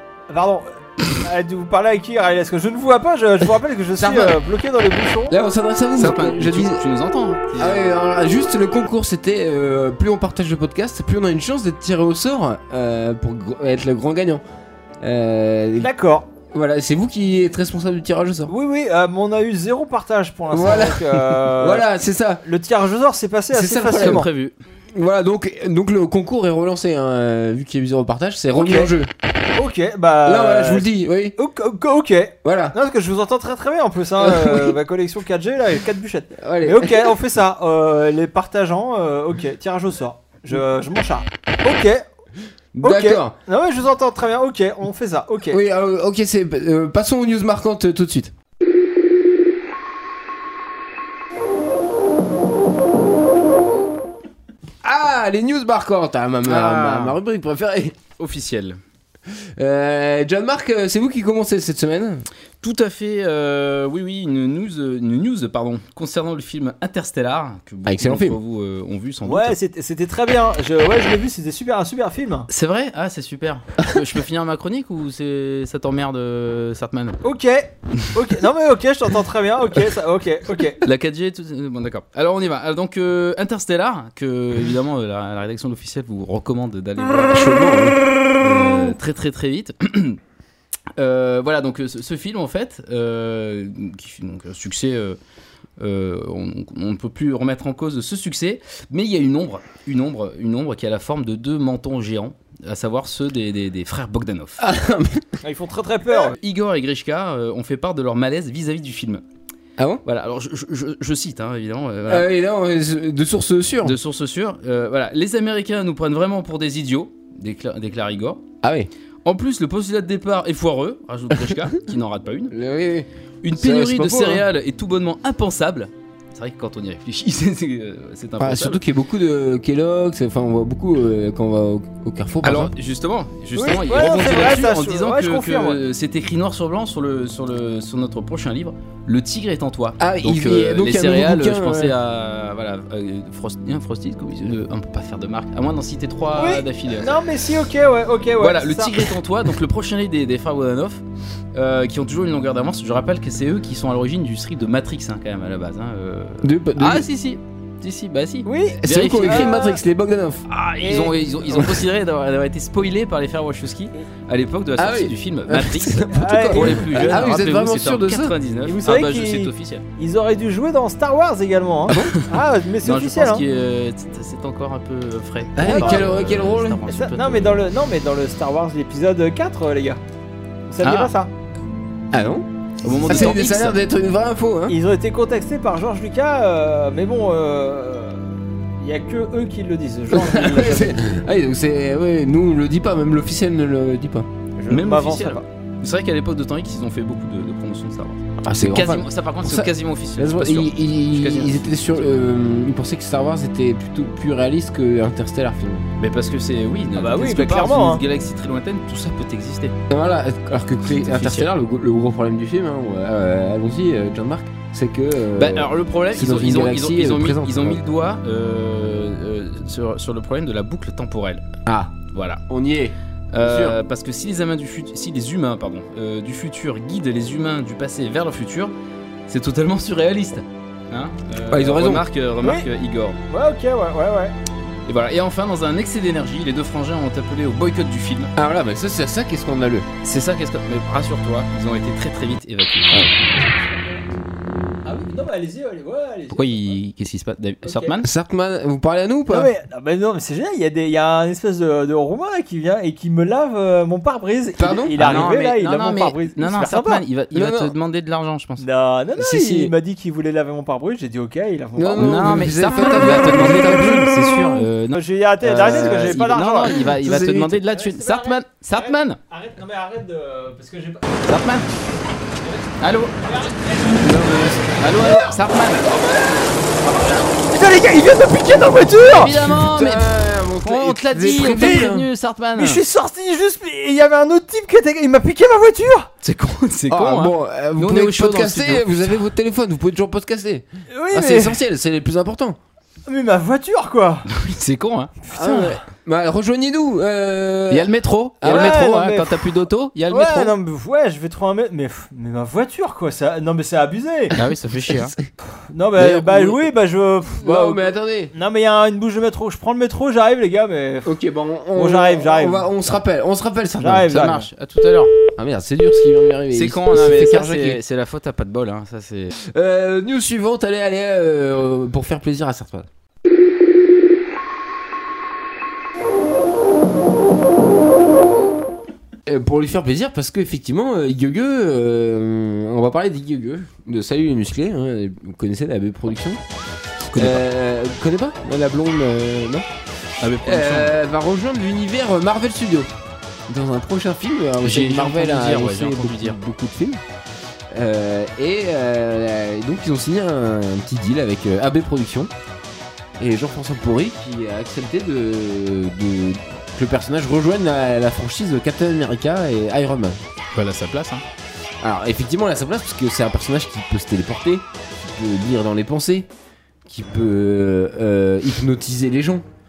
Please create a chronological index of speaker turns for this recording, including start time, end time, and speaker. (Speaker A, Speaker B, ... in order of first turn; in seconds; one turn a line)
Speaker A: 0.3-5.4
Speaker B: 4.0-4.4
Speaker B: 5.3-6.8
Speaker C: 6.0-8.0
Speaker B: 7.6-14.4
Speaker B: 15.0-15.9
Speaker A: 15.8-16.3
Speaker B: 16.5-18.5
Speaker A: 18.5-21.9
Speaker B: 20.5-22.4
Speaker A: 22.4-24.3
Speaker B: 23.5-24.3
Speaker C: 23.9-24.5
Speaker B: 24.9-29.1
Speaker A: 28.5-28.9
Speaker A: 29.6-42.0
Speaker B: 30.2-31.4
Speaker B: 32.4-32.8
Speaker B: 34.2-34.8
Speaker B: 36.4-37.1
Speaker B: 42.8-43.3
Speaker A: 42.8-45.6
Speaker B: 45.5-48.3
Speaker B: 54.8-58.0
Speaker C: 56.5-57.2
Speaker C: 58.2-58.8
Speaker B: 59.3-62.2
Speaker C: 62.6-69.5
Speaker B: 67.8-68.4
Speaker A: 69.2-72.5
Speaker C: 72.5-77.2
Speaker A: 77.2-80.8
Speaker C: 80.8-87.6
Speaker B: 87.3-88.0
Speaker C: 88.4-90.2
Speaker C: 91.0-95.2
Speaker C: 95.8-104.6
Speaker B: 104.6-105.4
Speaker A: 105.4-106.3
Speaker C: 106.3-109.2
Speaker B: 109.8-110.0
Speaker C: 110.0-112.3
Speaker B: 112.1-114.0
Speaker C: 113.8-118.4
Speaker B: 118.6-118.9
Speaker C: 119.2-122.5
Speaker B: 122.5-124.4
Speaker C: 123.4-128.8
Speaker B: 128.4-132.7
Speaker C: 132.4-147.2
Speaker A: 133.5-135.8
Speaker B: 140.0-141.9
Speaker A: 146.3-149.1
Speaker C: 148.4-151.0
Speaker C: 151.5-159.5
Speaker B: 156.4-157.0
Speaker A: 158.4-159.8
Speaker B: 158.8-160.4
Speaker C: 160.5-169.8
Speaker A: 160.8-161.1
Speaker B: 161.5-161.8
Speaker B: 164.8-168.3
Speaker A: 166.1-167.3
Speaker A: 168.6-173.4
Speaker C: 171.9-172.2
Speaker C: 172.8-177.6
Speaker B: 175.6-176.9
Speaker A: 175.7-176.1
Speaker A: 176.9-180.0
Speaker A: 180.7-181.3
Speaker C: 180.8-181.1
Speaker B: 182.1-184.8
Speaker C: 182.8-183.8
Speaker A: 183.0-183.3
Speaker A: 184.7-191.0
Speaker B: 190.1-194.3
Speaker A: 194.6-195.4
Speaker C: 194.7-202.2
Speaker B: 198.4-205.9
Speaker C: 206.0-209.7
Speaker A: 206.9-208.0
Speaker B: 209.9-217.8
Speaker C: 210.9-211.5
Speaker C: 215.3-221.4
Speaker B: 221.7-223.8
Speaker C: 222.1-222.4
Speaker C: 223.3-228.7
Speaker C: 229.3-233.2
Speaker B: 231.5-232.1
Speaker A: 232.4-232.7
Speaker A: 233.3-234.3
Speaker C: 234.8-238.3
Speaker B: 238.3-239.9
Speaker C: 240.0-243.1
Speaker A: 243.1-244.0
Speaker A: 244.8-246.8
Speaker C: 246.3-248.1
Speaker A: 247.6-247.9
Speaker B: 248.0-249.5
Speaker A: 249.3-257.0
Speaker B: 254.6-255.2
Speaker C: 255.0-258.6
Speaker B: 257.3-257.7
Speaker A: 258.6-262.3
Speaker B: 259.2-259.7
Speaker B: 261.8-264.3
Speaker C: 262.0-269.2
Speaker A: 264.9-266.8
Speaker B: 265.8-266.0
Speaker B: 266.8-267.6
Speaker A: 267.7-271.3
Speaker C: 271.3-271.6
Speaker A: 272.4-272.7
Speaker C: 272.8-273.1
Speaker A: 273.2-279.3
Speaker B: 274.0-274.6
Speaker C: 274.6-275.9
Speaker C: 279.1-282.8
Speaker B: 279.3-282.1
Speaker A: 281.5-281.9
Speaker A: 282.6-286.1
Speaker C: 286.2-289.2
Speaker B: 286.9-292.6
Speaker A: 290.9-291.6
Speaker A: 293.1-294.3
Speaker C: 294.3-295.6
Speaker A: 295.3-295.8
Speaker B: 295.3-298.9
Speaker C: 297.7-300.5
Speaker A: 298.4-299.4
Speaker A: 300.1-304.3
Speaker C: 304.3-305.1
Speaker B: 304.9-305.2
Speaker A: 305.7-311.2
Speaker B: 306.0-306.6
Speaker B: 307.4-308.3
Speaker B: 311.0-314.3
Speaker A: 311.7-312.7
Speaker A: 313.8-314.5
Speaker C: 314.1-315.1
Speaker B: 315.4-317.8
Speaker C: 316.5-319.3
Speaker B: 319.4-322.9
Speaker B: 329.2-336.4
Speaker C: 337.1-337.4
Speaker B: 337.1-339.7
Speaker C: 340.2-340.9
Speaker B: 340.4-342.9
Speaker B: 343.5-347.0
Speaker C: 344.6-346.4
Speaker B: 347.7-352.3
Speaker B: 353.2-360.2
Speaker C: 360.5-361.2
Speaker B: 361.8-366.3
Speaker B: 366.9-369.4